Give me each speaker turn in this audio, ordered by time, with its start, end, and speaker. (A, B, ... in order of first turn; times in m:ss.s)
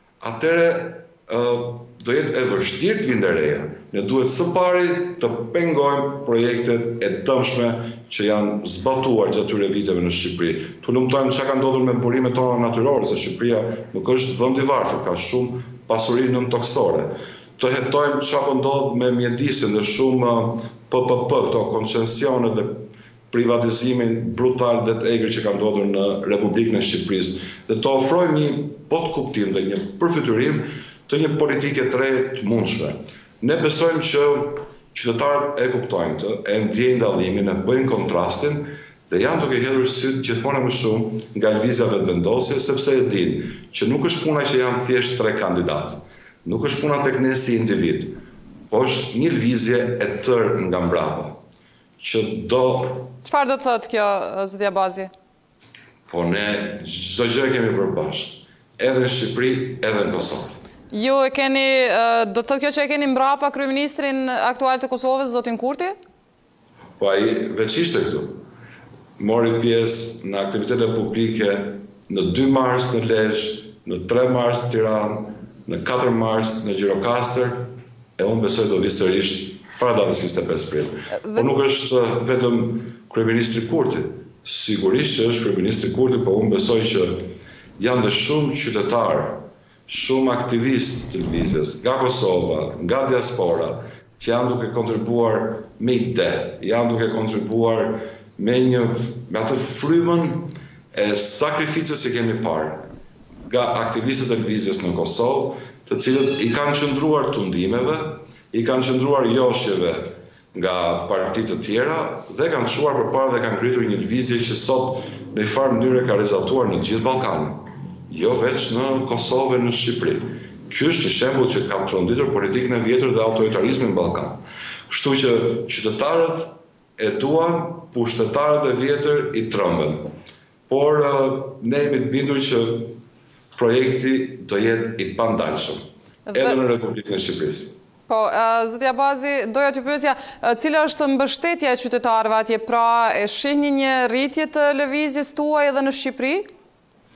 0:00.2-0:48.2 A
0:48.7-0:51.3 A
0:52.0-0:53.1 A
0:53.2-0:55.1 B
0:56.1-1:00.6 A
1:00.9-1:06.0 B
1:07.0-1:08.4 A
1:09.2-1:27.3 A
1:27.8-1:42.8 A
1:43.5-2:10.1 A
2:10.7-2:12.9 A
2:13.6-2:15.8 A
2:16.3-2:16.6 B
2:16.3-2:17.8 A
2:18.1-2:26.5 B